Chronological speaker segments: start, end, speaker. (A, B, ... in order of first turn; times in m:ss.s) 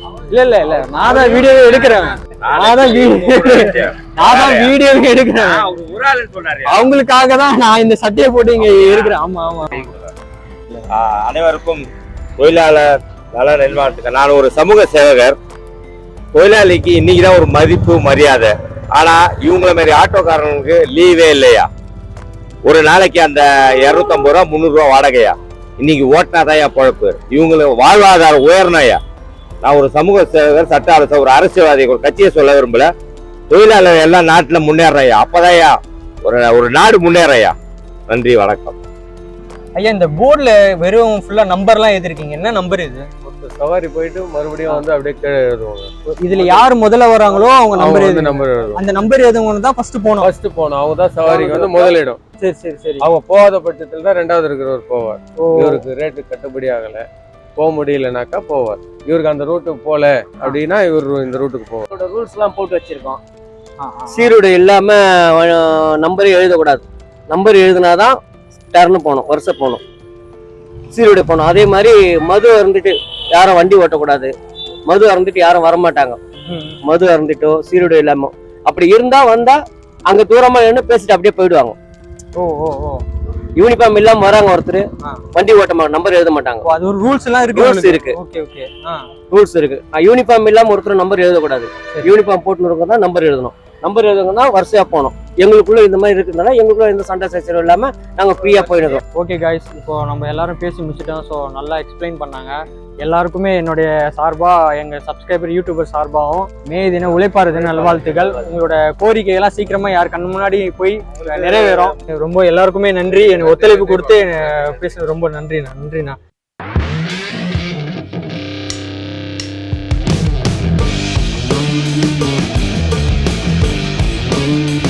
0:00.3-0:05.6 A
0:02.4-0:04.8 B
0:05.4-0:06.9 B
0:06.7-0:09.8 A
0:08.6-0:09.2 B
0:09.7-0:10.1 B
0:10.9-0:11.8 B
0:12.4-0:15.4 B
0:16.3-0:21.7 B
0:22.6-0:29.0 B
0:29.6-0:32.9 B
0:33.5-0:37.5 B
0:38.1-0:38.8 B
0:39.7-0:43.0 A
0:43.2-0:46.6 C
0:46.1-0:50.3 A
0:47.3-0:48.8 C
0:50.2-0:52.2 C
0:51.2-0:53.0 A
0:53.0-1:01.8 C
0:55.4-0:55.8 A
1:01.9-1:03.2 D
1:03.8-1:04.3 A
1:04.1-1:08.2 D
1:08.7-1:09.8 D
1:10.9-1:14.3 D
1:14.9-1:16.2 D
1:16.4-1:16.8 A
1:16.8-1:21.8 D
1:22.4-1:23.0 A
1:23.6-1:26.7 D
1:26.6-1:29.0 A
1:27.5-1:28.2 D
1:29.3-1:39.0 D
1:39.0-1:56.2 A